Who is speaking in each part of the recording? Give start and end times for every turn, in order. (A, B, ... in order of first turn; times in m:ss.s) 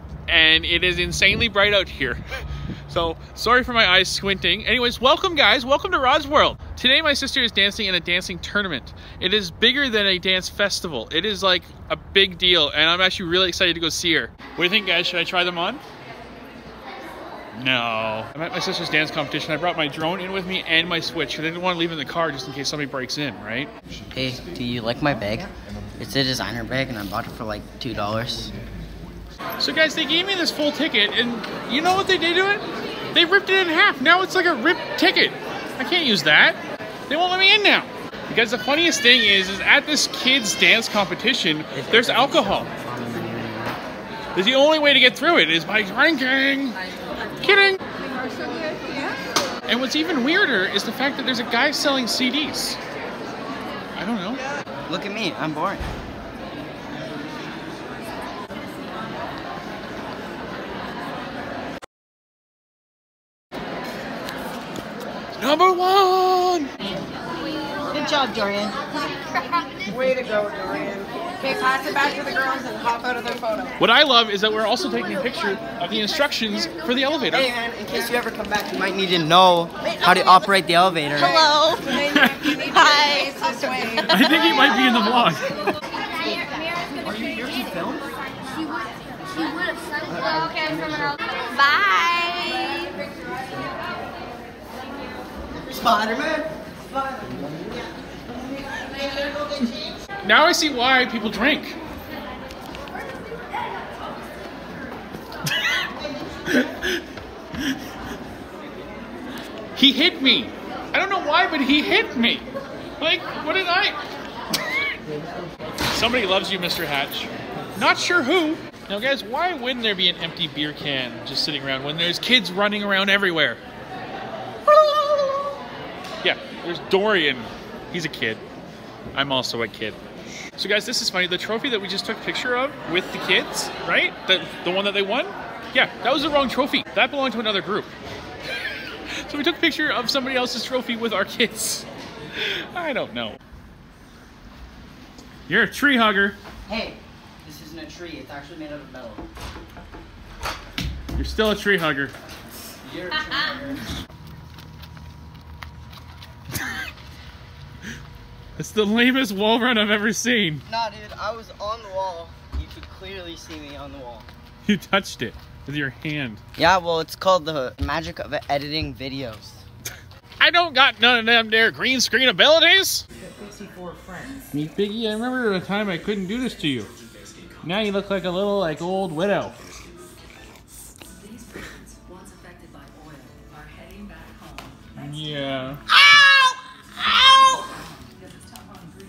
0:00.3-0:15.8 A
0:17.5-0:23.7 A
0:24.1-0:28.5 B
0:29.6-0:42.7 A
0:41.7-0:43.8 B
0:44.4-0:46.8 A
0:47.4-0:47.8 A
0:48.2-0:49.2 C
0:49.7-0:52.8 A
0:54.0-0:54.4 A
0:54.9-0:55.8 B
1:05.4-1:06.7 A
1:07.9-1:08.8 B
1:09.9-1:13.8 C
1:13.8-1:17.5 A
1:17.3-1:21.6 B
1:21.2-1:22.0 D
1:21.8-1:24.1 C
1:22.0-1:22.6 A
1:22.7-1:24.3 D
1:24.1-1:25.5 A
1:26.9-1:28.1 B
1:30.0-1:31.2 B
1:31.5-1:33.0 D
1:35.5-1:37.6 B
1:38.7-1:40.0 B
1:40.2-1:41.8 A
1:46.5-1:47.0 A
1:49.8-1:52.5 A
1:53.0-1:54.0 A
1:55.9-2:03.6 A
2:04.7-2:05.4 B
2:06.2-2:08.4 A
2:09.1-2:10.0 A
2:10.6-2:17.9 A
2:19.1-2:23.4 A
2:25.5-2:26.4 A
2:26.7-2:29.2 B
2:31.2-2:32.1 A
2:32.8-2:33.8 B
2:38.6-2:40.6 A
2:40.7-2:44.3 B
2:44.6-2:46.4 A
2:46.6-2:49.6 B
2:50.4-2:53.1 A
2:54.5-2:56.9 A
2:57.6-2:59.6 A
3:01.6-3:04.7 D
3:04.9-3:05.8 A
3:05.9-3:07.9 B